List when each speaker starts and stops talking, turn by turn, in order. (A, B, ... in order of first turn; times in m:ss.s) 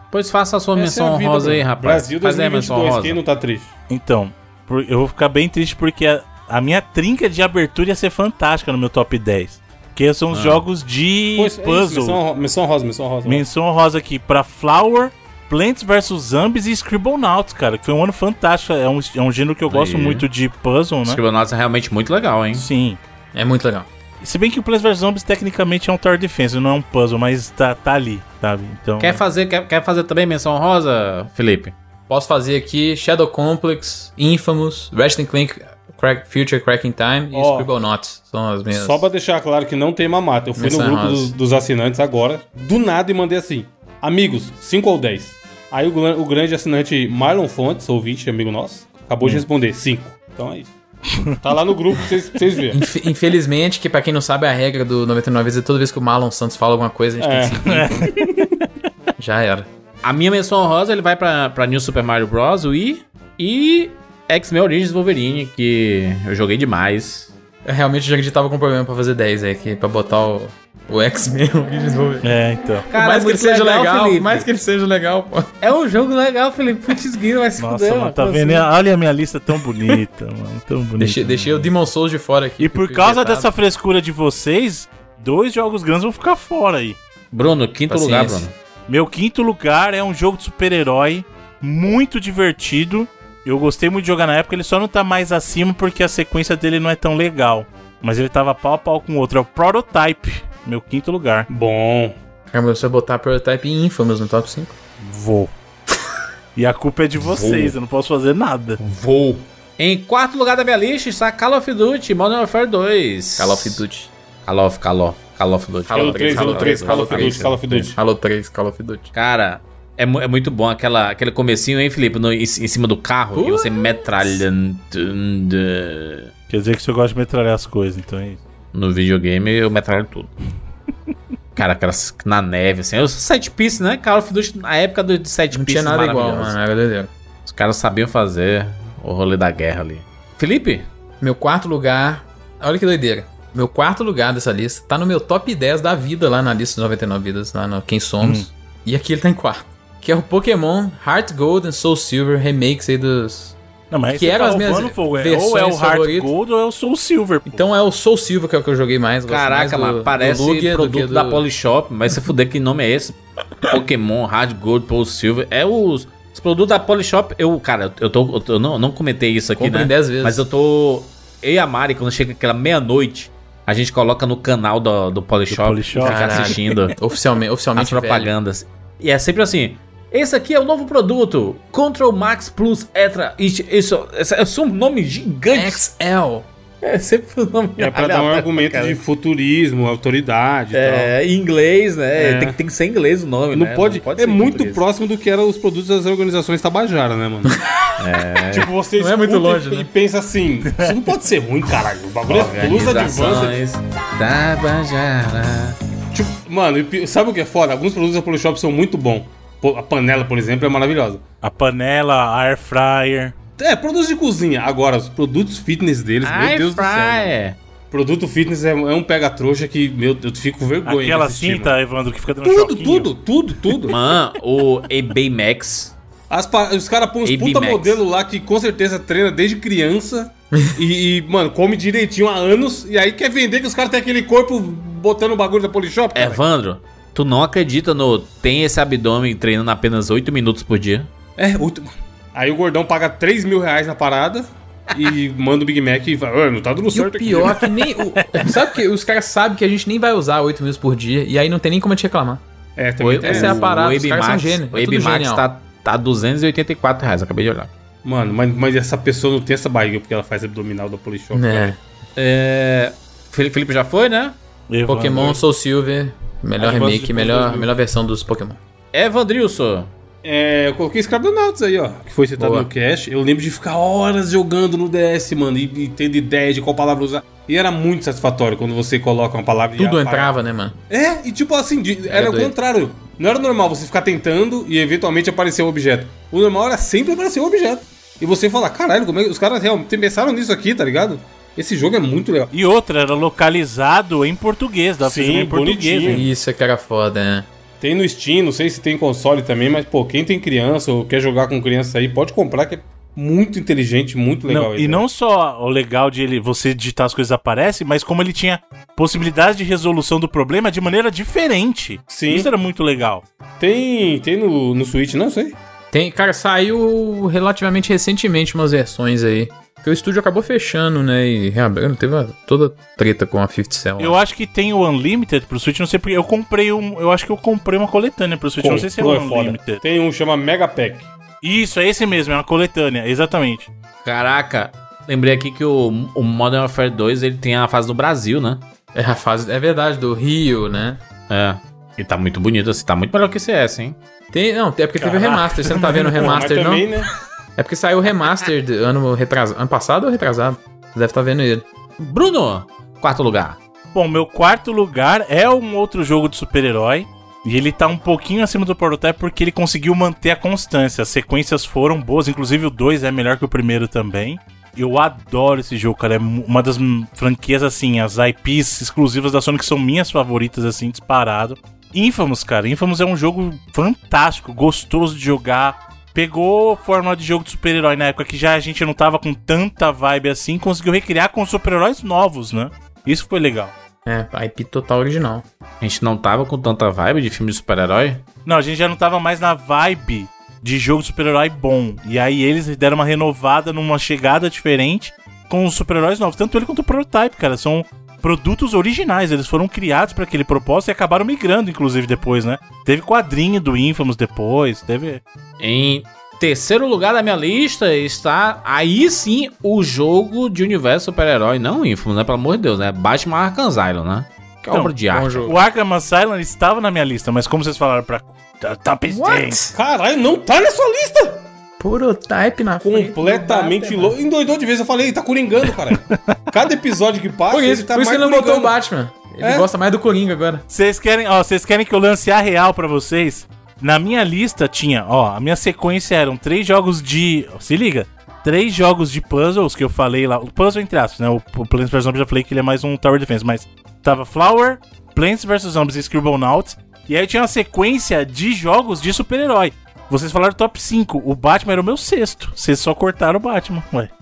0:00.1-0:03.2 A
0:00.7-0:03.7 B
0:03.9-0:12.2 C
0:10.3-0:10.6 A
0:11.3-0:13.4 B
0:13.2-0:21.2 C
0:19.7-0:20.2 A
0:21.0-0:22.7 A
0:22.5-0:23.0 C
0:23.3-0:23.9 D
0:24.2-0:29.2 C
0:29.0-0:31.7 A
0:32.1-0:39.0 D
0:37.3-0:37.7 B
0:38.7-0:50.7 B
0:40.6-0:41.3 D
0:51.4-0:52.8 B
0:52.7-0:58.2 D
0:57.2-0:58.4 B
0:57.6-0:58.5 C
0:59.2-0:59.7 D
1:00.0-1:07.3 A
1:07.6-1:12.3 D
1:12.2-1:12.8 C
1:12.9-1:14.5 A
1:12.9-1:15.5 D
1:15.6-1:18.7 A
1:17.6-1:21.7 C
1:21.0-1:23.5 D
1:22.6-1:27.0 C
1:27.3-1:28.5 A
1:27.9-1:28.5 D
1:28.9-1:41.5 C
1:41.5-1:42.2 B
1:42.5-1:44.8 D
1:45.0-1:45.5 C
1:46.6-1:48.8 C
1:47.2-1:47.7 A
1:48.8-1:53.8 A
1:53.4-1:54.1 D
1:54.4-1:57.9 A
1:55.8-1:59.1 D
1:55.9-1:58.0 B
1:59.1-2:06.3 A
2:03.3-2:04.4 D
2:06.5-2:08.4 C
2:08.7-2:10.3 A
2:11.6-2:16.6 A
2:15.5-2:17.1 D
2:17.4-2:20.9 A
2:21.2-2:33.6 D
2:28.2-2:28.5 C
2:33.9-2:37.7 C
2:34.1-2:36.3 D
2:37.4-2:41.4 D
2:39.3-2:56.9 A
2:49.6-2:50.4 D
2:55.5-2:56.5 C
2:56.0-2:58.3 D
2:57.8-3:05.8 A
3:05.5-3:06.5 D
3:06.8-3:09.0 A
3:07.8-3:11.1 B
3:10.7-3:14.8 A
3:12.2-3:12.6 B
3:13.5-3:17.6 B
3:18.0-3:18.7 A
3:18.5-3:23.6 B
3:19.0-3:19.9 D
3:22.2-3:25.8 A
3:26.1-3:31.2 B
3:31.4-3:33.3 C
3:33.6-3:37.3 B
3:36.2-3:37.6 A
3:37.9-3:41.7 B
3:40.8-3:43.1 C
3:42.4-3:44.0 B
3:43.9-3:45.9 A
3:46.3-3:56.4 B
3:47.2-3:48.0 A
3:56.1-4:01.1 A
4:01.4-4:07.6 B
4:06.9-4:12.4 D
4:08.2-4:08.5 C
4:12.8-4:13.6 B
4:13.0-4:17.7 A
4:13.2-4:15.4 D
4:18.0-4:21.8 B
4:21.3-4:21.8 D
4:22.2-4:24.4 A
4:24.7-4:25.4 C
4:24.8-4:28.6 D
4:26.6-4:27.7 B
4:28.9-4:29.9 A
4:30.2-4:40.3 B
4:32.4-4:32.7 D
4:39.8-4:40.7 D
4:40.9-4:52.5 B
4:42.1-4:42.5 D
4:52.5-4:56.2 C
4:55.0-4:56.2 B
4:56.0-4:57.5 D
4:57.8-5:05.0 B
5:04.5-5:13.2 C
5:12.1-5:12.5 B
5:13.6-5:15.6 B
5:15.9-5:24.2 D
5:24.0-5:29.8 C
5:28.6-5:31.1 B
5:31.4-5:33.7 C
5:34.0-5:38.6 A
5:38.9-5:41.0 D
5:41.3-5:44.0 A
5:44.3-5:46.9 D
5:45.0-5:46.4 C
5:46.1-5:47.1 B
5:47.6-5:51.6 D
5:52.0-5:53.6 A
5:53.9-6:23.7 C
6:24.0-6:25.4 D
6:25.8-6:28.2 A
6:28.4-6:45.2 C
6:45.6-6:55.5 A
6:55.1-6:55.6 D
6:55.4-6:59.6 C
6:59.1-6:59.7 D
6:59.7-7:01.5 B
7:01.8-7:04.2 D
7:02.8-7:08.7 B
7:07.5-7:10.6 D
7:09.4-7:09.7 B
7:10.7-7:34.1 C